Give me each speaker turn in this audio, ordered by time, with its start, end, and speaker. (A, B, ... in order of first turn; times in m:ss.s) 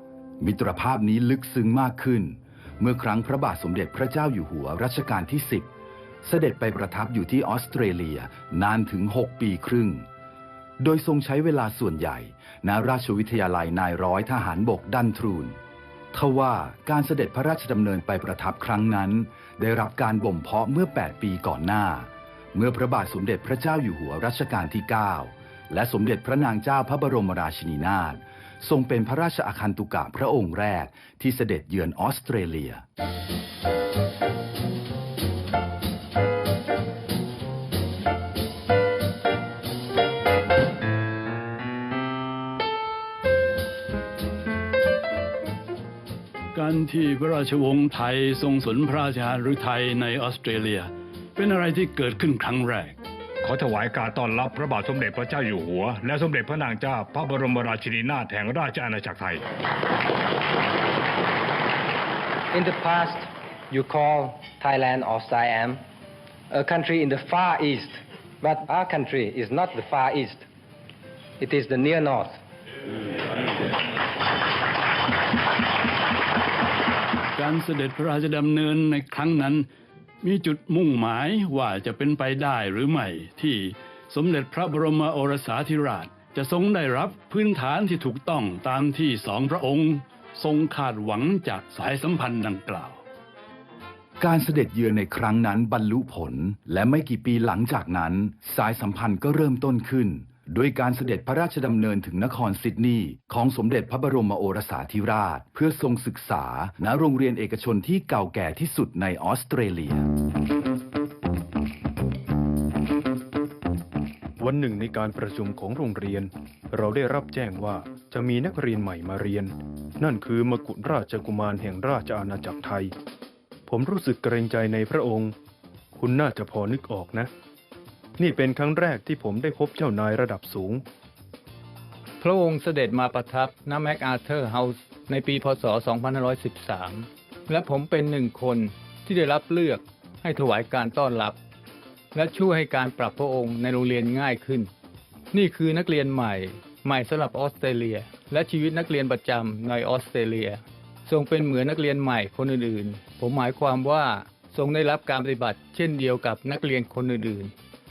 0:00.4-0:05.7 A
0:06.2-0:10.0 A
0:10.8-0:15.6 A
0:16.1-0:32.8 A
0:46.5-0:53.0 B
0:53.4-0:59.4 C
1:02.5-1:05.8 D
1:06.5-1:10.5 D
1:11.4-1:12.4 D
1:17.3-1:19.6 B
1:20.2-1:33.0 B
1:34.2-1:50.1 A
1:54.4-2:02.9 E
2:03.7-2:05.3 E
2:06.0-2:07.3 E
2:08.2-2:10.8 E
2:12.2-2:21.4 F
2:22.1-2:24.7 F
2:25.3-2:37.5 F